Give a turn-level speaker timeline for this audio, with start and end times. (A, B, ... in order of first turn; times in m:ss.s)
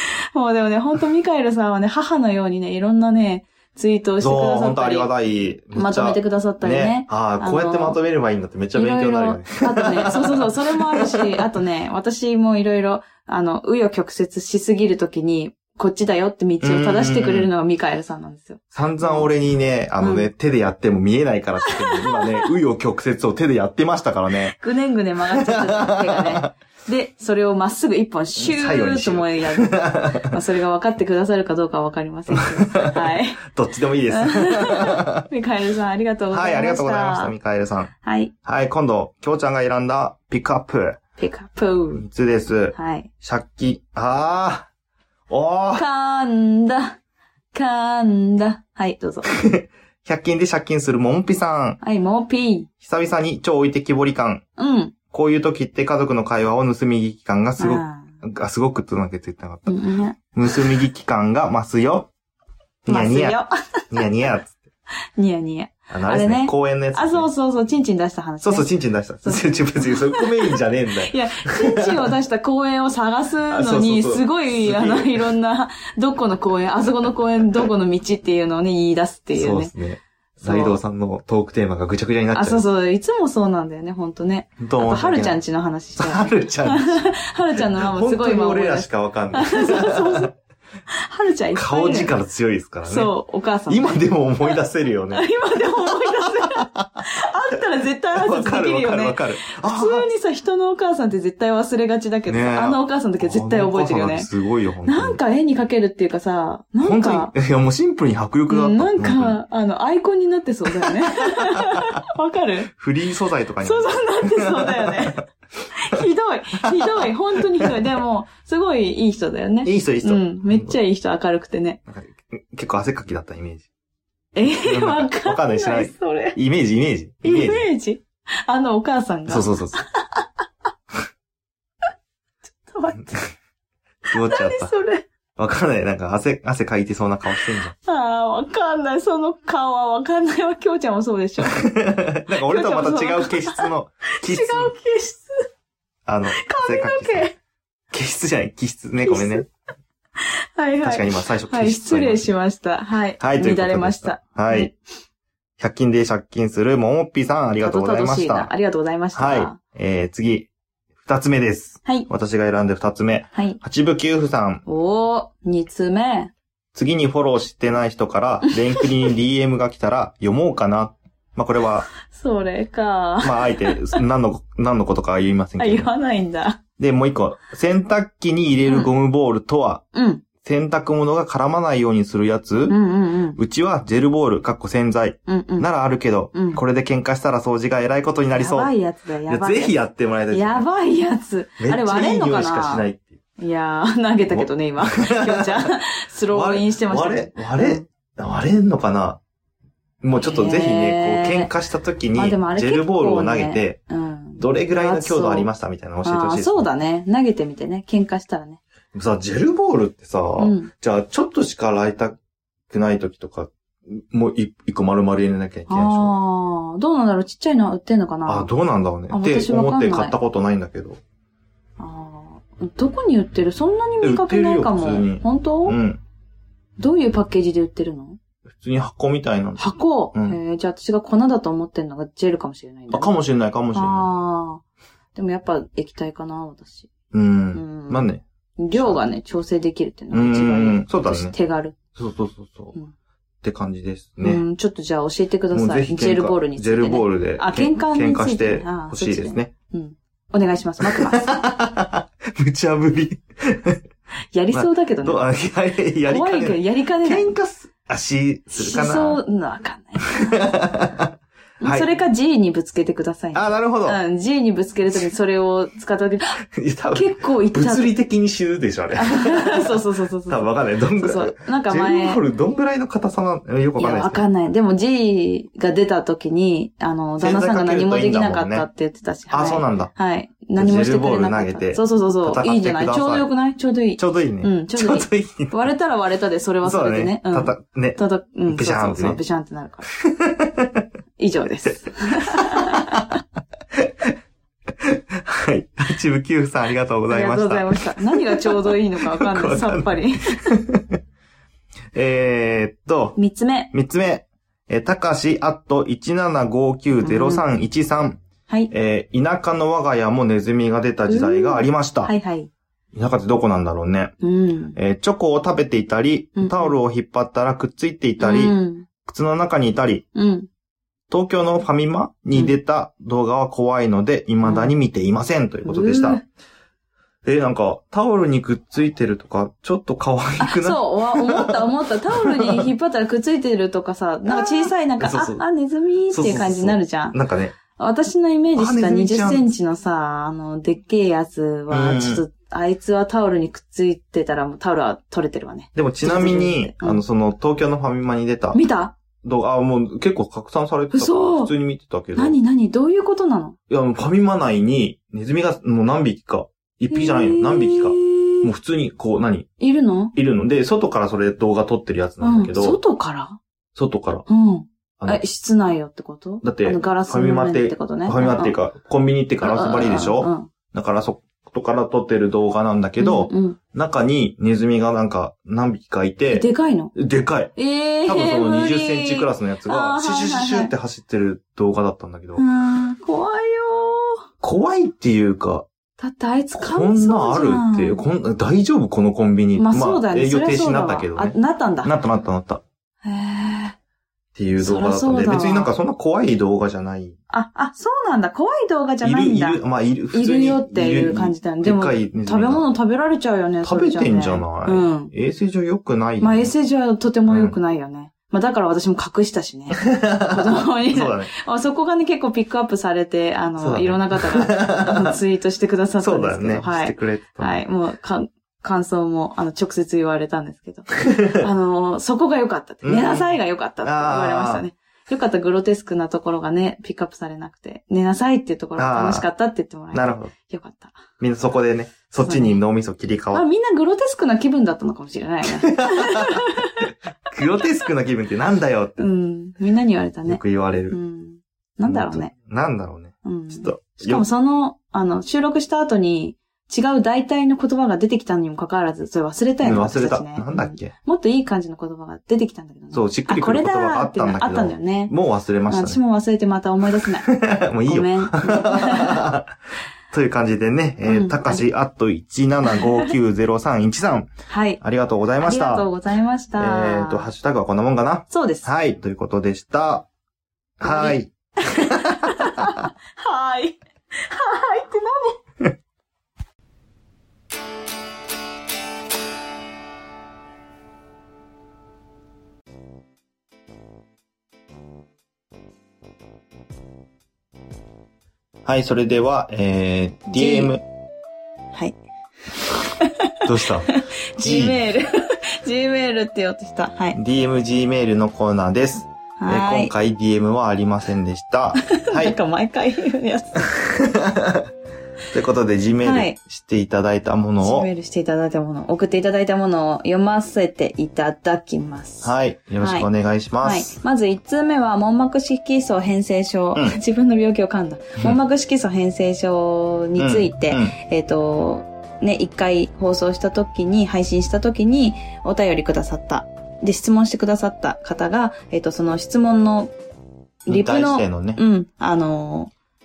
0:00.3-0:05.1 A
0:04.2-0:11.4 B
0:05.7-0:08.0 A
0:08.8-0:19.3 A
0:16.6-0:17.5 B
0:18.7-0:24.6 B
0:20.0-0:20.3 A
0:21.7-0:22.5 A
0:24.5-0:33.4 A
0:25.3-0:26.5 B
0:28.4-0:30.4 B
0:32.3-0:35.3 B
0:34.1-0:37.3 A
0:36.3-0:37.9 B
0:38.0-0:38.3 A
0:38.4-0:41.0 B
0:41.2-0:42.0 A
0:42.0-0:44.7 B
0:42.7-0:43.1 A
0:45.3-0:45.8 B
0:45.8-0:47.0 A
0:47.5-0:49.3 A
0:49.2-0:51.8 B
0:51.8-0:52.7 A
0:52.8-0:54.4 B
0:54.6-0:55.0 A
0:55.1-1:02.1 B
0:57.6-0:58.1 A
0:59.7-1:00.2 A
1:02.8-1:03.4 B
1:02.9-1:04.0 A
1:03.9-1:04.6 B
1:05.2-1:08.7 A
1:05.9-1:07.3 B
1:08.4-1:12.1 B
1:09.2-1:19.7 A
1:13.5-1:15.3 B
1:19.4-1:22.6 B
1:20.4-1:20.8 A
1:22.3-1:30.3 A
1:24.6-1:25.4 B
1:26.0-1:30.3 B
1:30.9-1:32.1 A
1:31.6-1:33.1 B
1:32.9-1:34.6 A
1:33.7-1:37.1 B
1:35.1-1:44.3 A
1:38.2-1:40.1 B
1:42.3-1:45.2 B
1:44.8-1:47.3 A
1:46.8-1:49.4 B
1:48.5-1:52.7 A
1:50.8-1:51.9 B
1:52.7-1:55.2 B
1:53.6-2:01.8 A
1:56.6-1:57.8 B
1:59.6-2:00.8 B
2:01.9-2:03.7 B
2:04.4-2:06.4 A
2:04.6-2:07.7 B
2:07.2-2:10.3 A
2:09.3-2:09.8 B
2:12.6-2:13.3 A
2:14.1-2:14.7 B
2:14.1-2:15.1 A
2:15.4-2:17.8 B
2:17.4-2:21.7 A
2:21.5-2:24.7 B
2:22.3-2:25.4 A
2:26.1-2:27.3 B
2:26.3-2:27.4 A
2:27.9-2:29.5 B
2:29.0-2:29.5 A
2:30.2-2:34.8 A
2:30.8-2:32.3 B
2:33.2-2:34.7 B
2:35.6-2:38.5 B
2:37.6-2:39.6 A
2:39.2-2:40.5 B
2:41.0-2:44.6 B
2:43.3-2:43.6 A
2:44.7-2:46.3 A
2:46.8-2:51.9 B
2:48.5-2:49.1 A
2:52.0-2:54.0 A
2:53.2-2:55.9 B
2:55.6-2:56.6 A
2:56.8-2:59.8 B
2:59.9-3:00.2 A
3:00.4-3:02.8 B
3:02.7-3:03.4 A
3:03.4-3:08.7 B
3:05.3-3:05.7 A
3:06.3-3:06.6 A
3:08.3-3:09.8 A
3:09.3-3:10.7 B
3:10.3-3:12.9 A
3:11.6-3:13.2 B
3:13.4-3:17.9 A
3:14.3-3:15.7 B
3:16.3-3:19.2 B
3:20.0-3:23.8 B
3:20.2-3:21.5 A
3:22.2-3:25.5 A
3:24.4-3:26.7 B
3:26.0-3:28.6 A
3:28.9-3:32.2 B
3:30.4-3:30.7 A
3:32.7-3:36.2 B
3:35.7-3:38.5 A
3:38.3-3:41.0 B
3:39.1-3:40.2 A
3:41.8-3:45.8 A
3:44.0-3:46.0 B
3:46.8-3:48.2 A
3:48.5-3:50.4 B
3:49.6-3:53.1 A
3:52.9-3:54.1 B
3:53.7-3:54.6 A
3:55.2-3:56.9 A
3:57.1-3:59.0 B
3:57.5-4:01.8 A
4:00.1-4:01.4 B
4:02.0-4:02.8 B
4:03.4-4:04.4 B
4:04.2-4:11.4 A
4:05.5-4:09.5 B
4:10.8-4:13.8 B
4:14.3-4:15.3 A
4:14.5-4:19.2 B
4:16.1-4:17.3 A
4:18.5-4:20.5 A
4:20.1-4:21.9 B
4:21.6-4:27.9 A
4:23.3-4:24.0 B
4:26.5-4:34.2 B
4:29.0-4:32.2 A
4:33.8-4:49.9 A
4:37.2-4:38.7 B
4:39.3-4:39.9 B
4:40.6-4:43.3 B
4:44.0-4:45.7 B
4:46.6-4:49.2 B
4:50.0-4:50.9 B
4:51.2-4:53.2 A
4:52.3-4:53.1 B
4:53.7-4:54.1 B
4:54.8-5:01.0 B
4:57.1-5:00.5 A
5:01.9-5:03.2 B
5:03.2-5:03.7 A
5:03.7-5:08.2 B
5:07.0-5:07.5 A
5:08.7-5:12.1 B
5:11.1-5:12.5 A
5:12.9-5:14.1 B
5:14.2-5:14.8 A
5:14.8-5:20.0 B
5:16.4-5:16.8 A
5:18.2-5:18.9 A
5:20.2-5:20.5 A
5:21.1-5:26.2 B
5:24.4-5:24.7 A
5:25.6-5:26.2 A
5:27.2-5:32.7 B
5:30.4-5:37.2 A
5:34.3-5:35.4 B
5:36.1-5:37.6 B
5:37.8-5:47.0 A
5:38.6-5:39.5 B
5:41.7-5:42.2 B
5:45.8-5:48.6 B
5:48.5-5:49.0 A
5:49.2-5:52.4 B
5:50.9-5:51.5 A
5:52.2-5:53.6 A
5:53.7-5:59.5 B
5:56.9-5:58.5 A
5:59.6-6:00.1 A
6:00.2-6:02.8 B
6:02.2-6:03.4 A
6:03.8-6:04.2 B
6:04.3-6:08.6 A
6:06.4-6:17.5 B
6:09.4-6:10.5 A
6:13.0-6:13.6 A
6:16.3-6:16.9 A
6:17.6-6:20.7 A
6:18.1-6:22.4 B
6:22.4-6:24.2 A
6:24.4-6:25.7 B
6:26.0-6:28.0 A
6:26.6-6:32.6 B
6:29.6-6:31.9 A
6:33.0-6:33.8 A
6:34.4-6:37.2 B
6:34.6-6:35.7 A
6:37.3-6:39.6 A
6:39.0-6:42.7 B
6:40.1-6:45.1 A
6:43.6-6:46.5 B
6:46.2-7:11.0 A
6:47.3-6:47.6 B
6:49.8-6:51.3 B
6:53.6-6:55.2 B
6:56.0-6:57.6 B
7:01.1-7:01.5 B
7:02.8-7:03.3 B
7:03.8-7:04.6 B
7:08.8-7:09.3 B
7:09.9-7:10.3 B
7:11.2-7:13.4 B
7:12.2-7:12.6 A
7:13.3-7:16.9 A
7:15.6-7:16.5 B
7:17.3-7:19.1 B
7:19.0-7:22.3 A
7:20.3-7:21.0 B
7:21.8-7:24.2 B
7:23.2-7:35.1 A
7:29.6-7:30.9 B
7:32.9-7:36.0 B
7:35.7-7:37.3 A
7:37.2-7:39.5 B
7:37.8-7:39.2 A
7:40.1-7:44.3 B
7:41.0-7:41.6 A
7:42.7-7:43.1 A
7:44.5-7:44.8 A
7:44.8-7:45.9 B
7:45.4-7:47.3 A
7:46.6-7:50.1 B
7:48.3-7:48.7 A
7:50.8-7:52.9 B
7:50.8-7:55.4 A
8:08.6-8:10.8 B
8:10.3-8:10.7 A
8:12.9-8:17.2 A
8:13.4-8:14.8 B
8:17.2-8:22.4 B
8:19.4-8:19.9 A
8:21.9-8:23.7 A
8:23.7-8:24.7 B
8:25.3-8:27.9 B
8:26.0-8:26.4 A
8:27.6-8:33.1 A
8:32.2-8:33.9 B
8:33.6-8:49.9 A
8:40.2-8:41.0 B
8:50.7-8:52.7 A
8:50.7-8:51.6 B